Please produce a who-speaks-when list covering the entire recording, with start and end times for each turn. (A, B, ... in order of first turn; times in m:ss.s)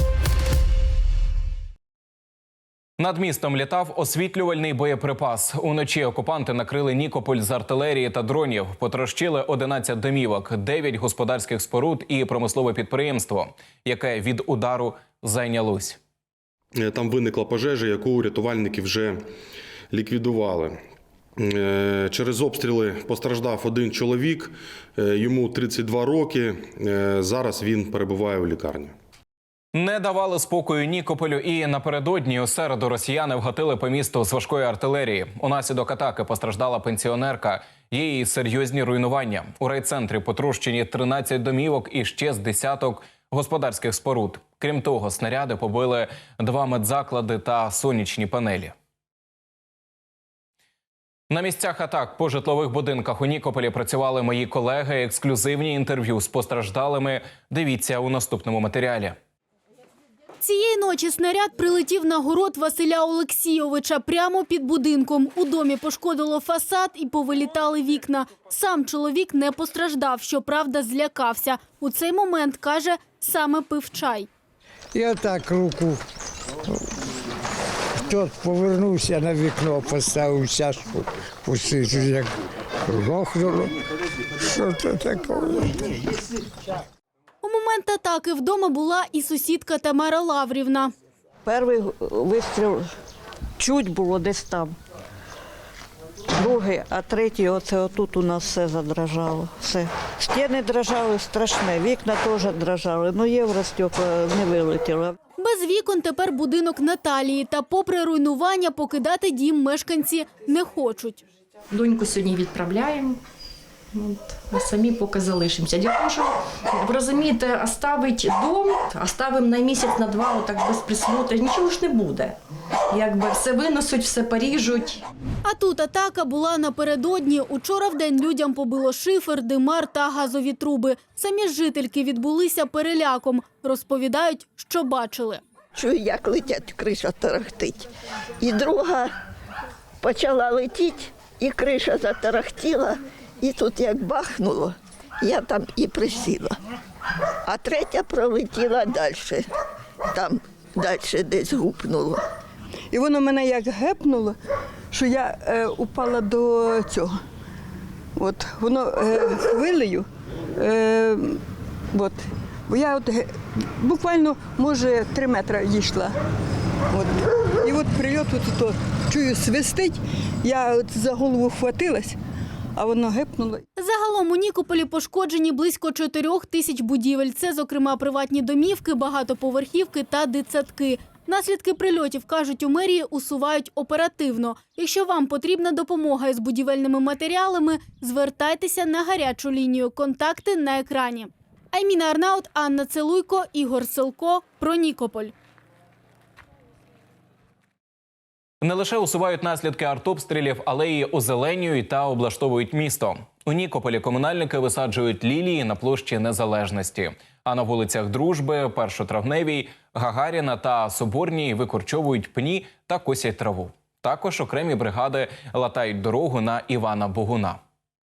0:03.0-0:16.0 A
0:16.8-0:19.2 B
0:19.9-0:20.8 B
0:21.4-0:28.9 B
0:29.8-0:48.7 A
0:51.3-0:59.2 A
1:00.4-1:14.3 C
1:15.0-1:16.0 D
1:18.0-1:22.3 D
1:22.9-1:23.8 D
1:24.4-1:25.9 D
1:27.4-1:30.9 C
1:31.4-1:32.9 E
1:33.6-1:34.8 E
1:36.4-1:45.2 E
1:45.4-1:51.2 C
1:51.7-1:53.2 F
1:53.9-2:02.4 F
2:02.9-2:05.0 F
2:05.4-2:15.4 C
2:15.8-2:17.9 G
2:18.4-2:19.1 G
2:20.0-2:26.6 G
2:27.4-2:29.4 G
2:30.1-2:32.2 G
2:32.9-2:34.4 H
2:34.9-2:37.1 H
2:38.2-2:41.4 H
2:41.9-2:46.1 H
2:46.9-2:52.2 H
2:52.8-2:53.6 H
2:53.8-3:15.3 C
3:18.6-3:37.6 A